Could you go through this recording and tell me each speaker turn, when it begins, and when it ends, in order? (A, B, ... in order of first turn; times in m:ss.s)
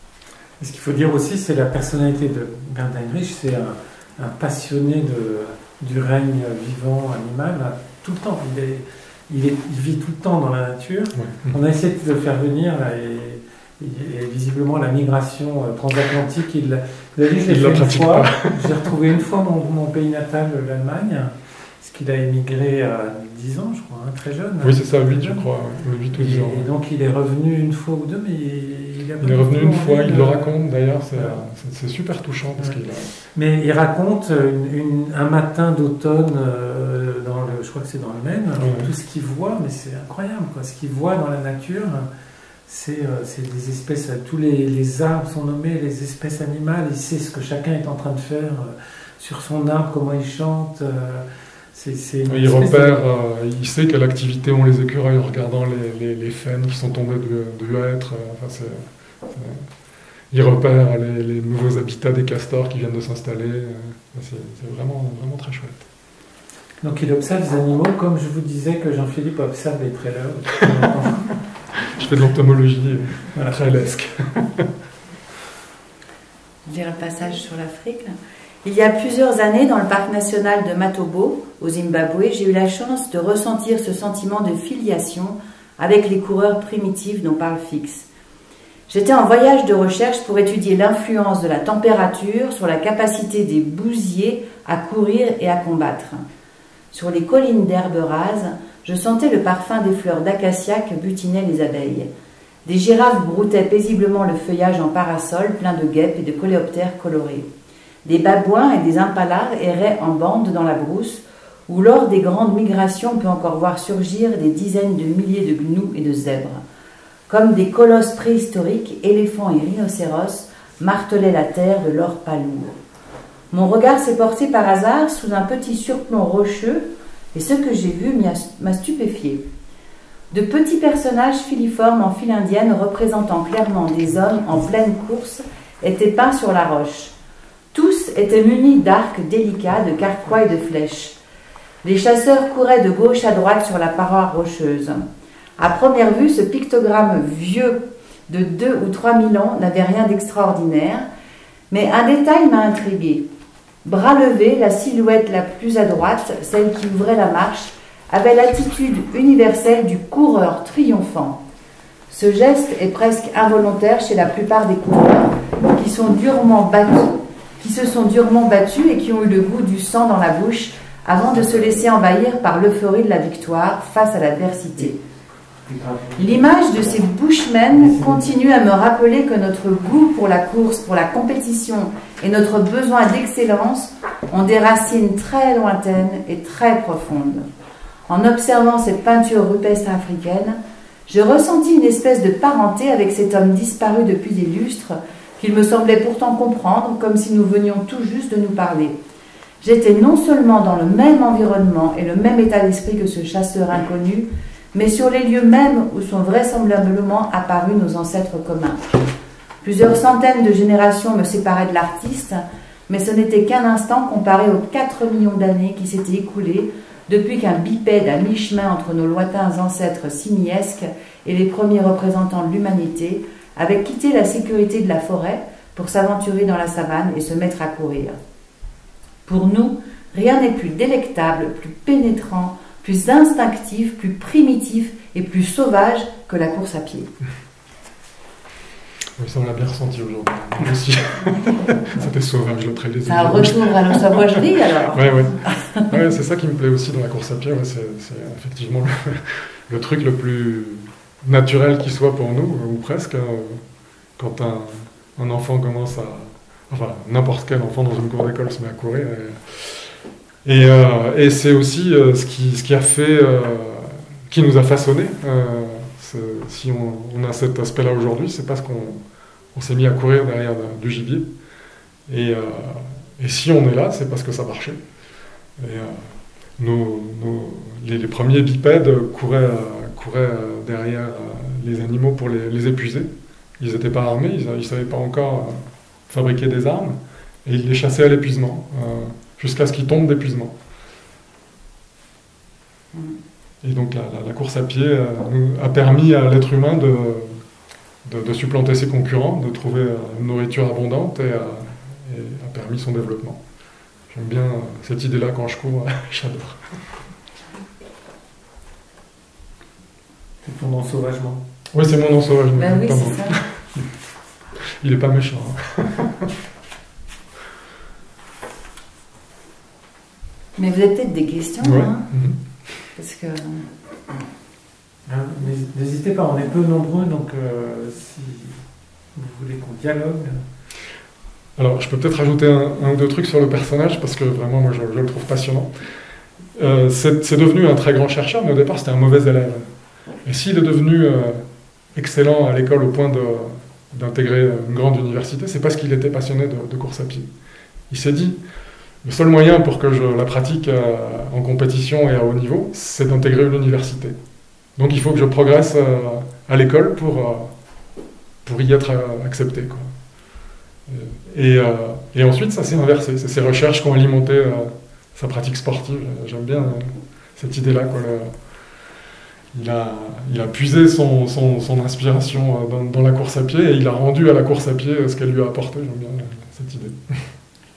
0:00.6-0:25.4 A
0:11.2-0:11.6 B
0:17.4-0:18.8 B
0:24.6-0:26.7 B
0:26.1-0:30.6 A
0:29.2-0:33.1 B
0:32.6-0:42.1 A
0:38.6-0:38.9 B
0:42.7-0:53.0 A
0:52.2-0:59.6 B
1:00.3-1:05.8 B
1:06.8-1:11.3 A
1:11.9-1:14.7 B
1:13.3-1:13.6 A
1:16.6-1:28.1 C
1:28.9-1:36.2 C
1:36.9-1:42.1 C
1:42.6-1:47.4 C
1:48.0-1:56.6 C
1:57.3-2:02.8 C
2:03.5-2:09.4 C
2:10.3-2:17.1 C
2:17.7-2:21.2 C
2:21.8-2:25.0 C
2:25.6-2:31.1 C
2:31.7-2:33.2 C
2:33.8-2:41.4 C
2:42.1-2:55.0 C
2:55.6-2:57.0 A
2:56.2-3:07.5 C
2:57.7-2:58.3 A
3:08.1-3:19.0 C
3:19.6-3:28.9 C
3:29.6-3:48.2 C
3:49.2-3:57.1 C
3:59.2-4:13.6 B
4:03.0-4:05.9 C
4:14.2-4:19.9 B
4:20.4-4:29.0 B
4:29.5-4:31.2 B
4:32.1-4:34.8 B
4:35.6-4:43.1 B
4:43.6-4:50.5 B
4:53.6-4:57.4 B
4:58.0-5:03.4 B
5:04.1-5:06.7 B
5:10.4-5:11.4 A
5:11.7-5:13.6 B
5:12.6-5:13.4 C
5:14.8-5:16.3 B
5:20.6-5:22.1 C
5:21.6-5:22.4 B
5:23.0-5:23.7 C
5:25.0-5:28.6 A
5:29.1-5:30.4 A
5:31.6-5:35.7 B
5:36.5-5:39.6 B
5:40.2-5:41.4 B
5:41.9-5:47.3 B
5:47.9-5:48.4 B
5:49.0-5:54.1 B
5:54.8-5:57.5 B
5:58.4-5:59.9 B
6:00.9-6:08.3 B
6:09.5-6:17.2 B